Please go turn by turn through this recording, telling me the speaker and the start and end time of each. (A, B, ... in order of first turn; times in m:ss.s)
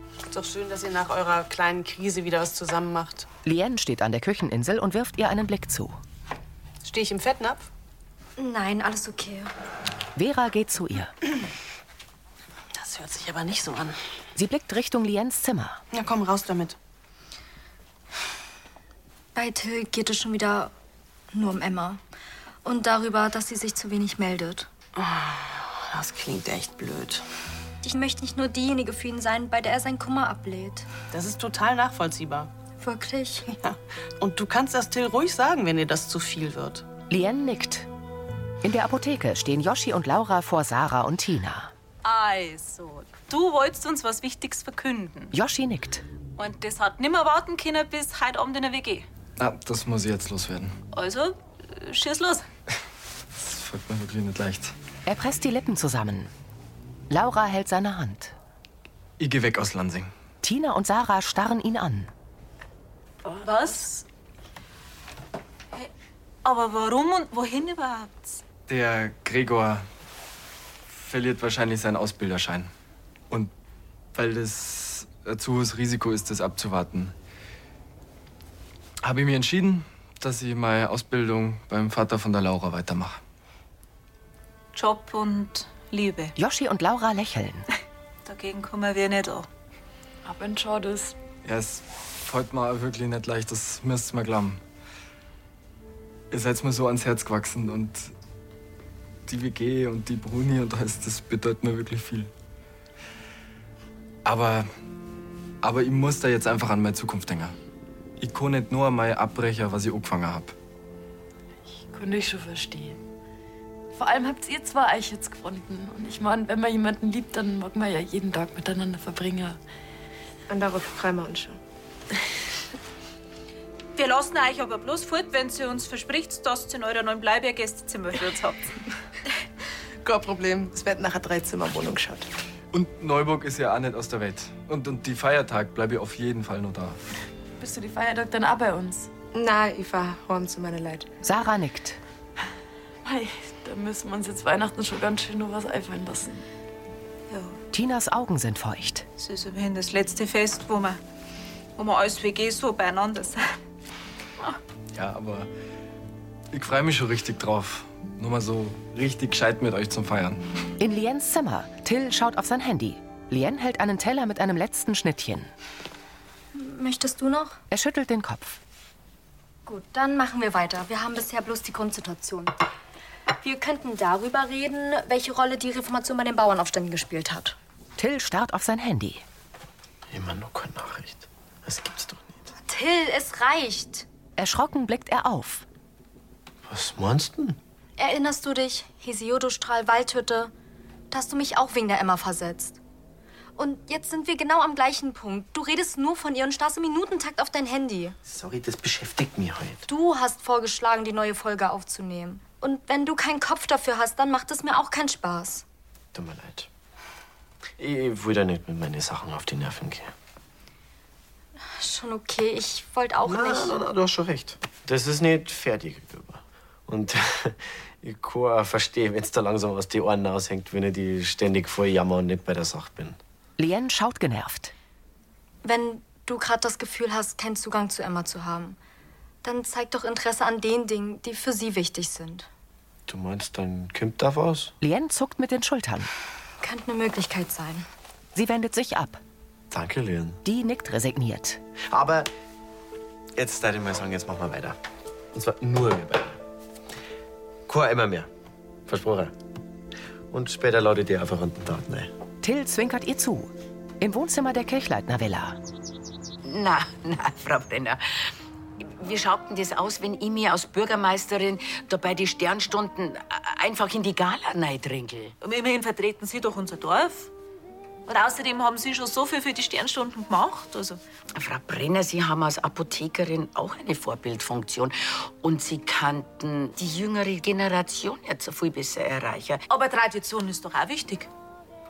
0:00.3-0:03.3 A
0:03.4-0:06.0 B
0:06.8-0:07.7 A
0:08.4-0:09.5 C
0:10.2-0:11.1 B
0:12.8-0:13.9 A
0:14.4-0:15.8 B
0:16.0-0:16.8 A
0:19.4-0:20.7 C
0:21.3-0:22.0 C
0:22.6-0:24.7 C
0:25.9-0:27.2 A
0:27.8-0:30.9 C
0:31.1-0:32.5 A
0:32.8-0:33.5 C
0:33.6-0:36.8 A
0:37.1-0:37.9 B
0:38.6-0:41.7 B
0:42.0-0:45.3 D
0:45.3-0:46.0 B
0:46.4-0:49.1 D
0:49.4-0:50.8 E
0:50.9-0:52.5 D
0:53.4-0:54.7 E
0:55.1-0:56.3 B
0:57.1-0:58.4 B
0:59.2-1:00.1 E
1:00.4-1:02.1 B
1:03.4-1:04.0 F
1:03.4-1:03.8 D
1:06.4-1:08.4 D
1:08.7-1:09.9 E
1:10.9-1:12.7 E
1:14.1-1:17.1 E
1:19.0-1:23.2 E
1:24.7-1:26.3 D
1:26.4-1:27.7 B
1:28.2-1:29.5 D
1:30.2-1:31.2 F
1:31.4-1:34.6 E
1:36.3-1:38.1 E
1:39.3-1:42.3 E
1:44.2-1:44.7 E
1:45.6-1:47.6 E
1:48.2-1:50.6 E
1:51.8-1:53.0 F
1:53.9-1:59.6 F
2:00.5-2:01.6 G
2:04.0-2:08.8 D
2:10.0-2:12.3 G
2:12.7-2:17.0 E
2:17.6-2:19.1 F
2:19.3-2:21.1 G
2:21.2-2:22.0 B
2:23.0-2:26.4 F
2:27.3-2:27.6 D
2:27.7-2:29.1 B
2:29.2-2:31.0 D
2:31.8-2:33.5 D
2:34.9-2:35.5 E
2:36.5-2:40.4 E
2:40.8-2:45.5 B
2:46.5-2:47.6 C
2:47.7-2:48.6 B
2:49.7-2:52.5 C
2:53.4-2:57.6 C
2:58.0-2:59.2 B
3:00.1-3:02.5 H
3:02.6-3:04.1 C
3:04.4-3:05.6 B
3:06.7-3:07.6 H
3:08.0-3:10.5 C
3:11.1-3:12.8 C
3:13.6-3:18.2 C
3:18.2-3:19.8 H
3:19.9-3:25.6 C
3:26.1-3:26.7 H
3:27.8-3:30.1 H
3:31.8-3:33.8 C
3:33.2-3:43.2 H
3:43.6-3:44.7 B
3:45.6-3:48.8 C
3:49.4-3:52.5 C
3:53.1-3:54.7 H
3:54.8-3:56.1 B
3:56.6-3:57.9 C
3:58.4-3:59.2 B
3:59.7-4:00.4 H
4:00.4-4:01.6 B
4:01.9-4:02.3 H
4:03.4-4:04.8 H
4:05.3-4:06.4 H
4:07.7-4:08.3 H
4:08.9-4:09.3 H
4:10.3-4:12.1 H
4:12.4-4:15.6 B
4:16.4-4:25.4 I
4:25.4-4:27.3 D
4:28.1-4:31.0 D
4:31.4-4:39.6 I
4:39.7-4:41.3 D